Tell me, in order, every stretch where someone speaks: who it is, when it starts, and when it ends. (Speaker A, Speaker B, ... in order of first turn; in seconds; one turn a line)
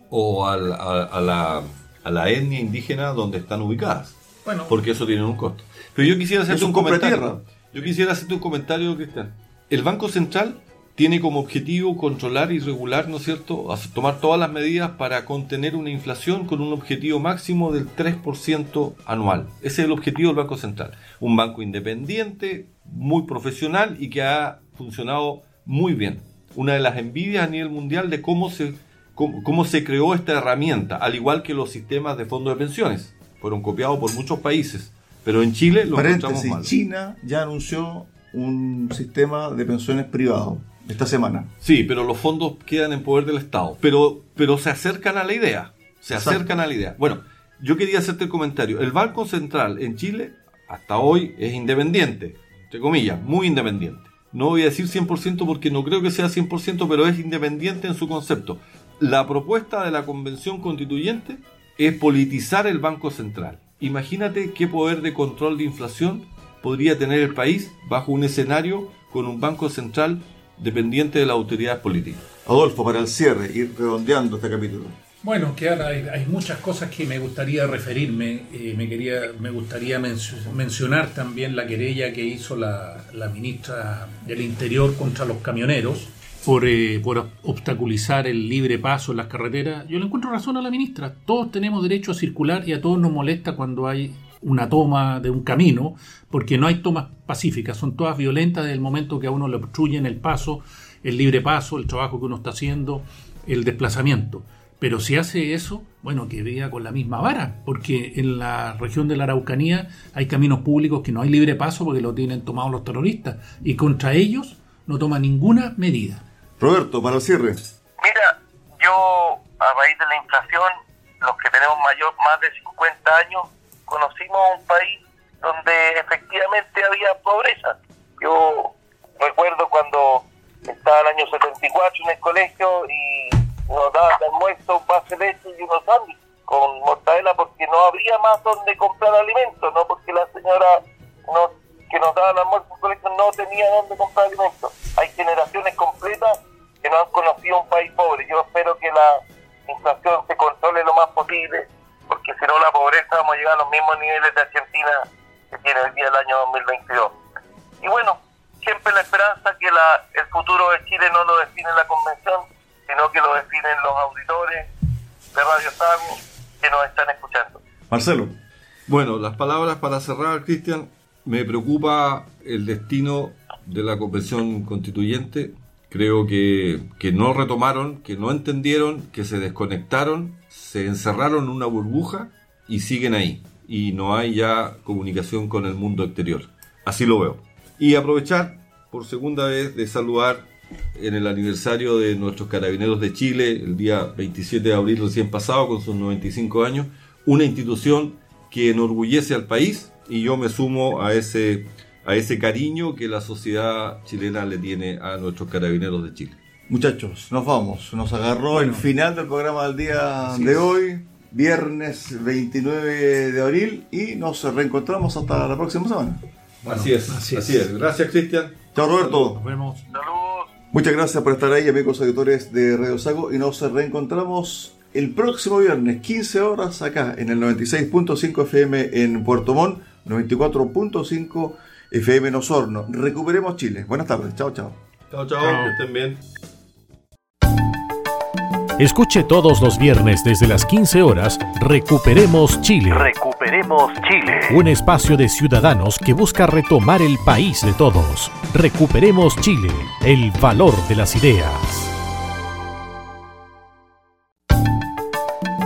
Speaker A: 0.1-36.7
Speaker B: 4.5-4.8
Speaker C: 6.5-7.4
Speaker C: 35.9-41.5
Speaker A: 41.6-72.2
Speaker C: 46.1-46.5
Speaker C: 72.5-75.0
Speaker B: 75.2-116.2
Speaker C: 116.6-117.6
Speaker D: 118.0-157.2
Speaker D: 157.8-164.7
Speaker D: 165.3-167.6
Speaker C: 167.9-168.4
Speaker A: 168.9-206.4
Speaker C: 206.7-216.2
Speaker B: 208.5-208.9
Speaker B: 210.3-210.6
Speaker B: 216.6-217.7
Speaker A: 216.7-219.0
Speaker C: 218.8-219.4
Speaker B: 219.1-219.9
Speaker D: 219.9-220.5
Speaker C: 220.7-234.8
Speaker A: 235.1-236.2
Speaker B: 235.4-235.8
Speaker E: 238.8-251.6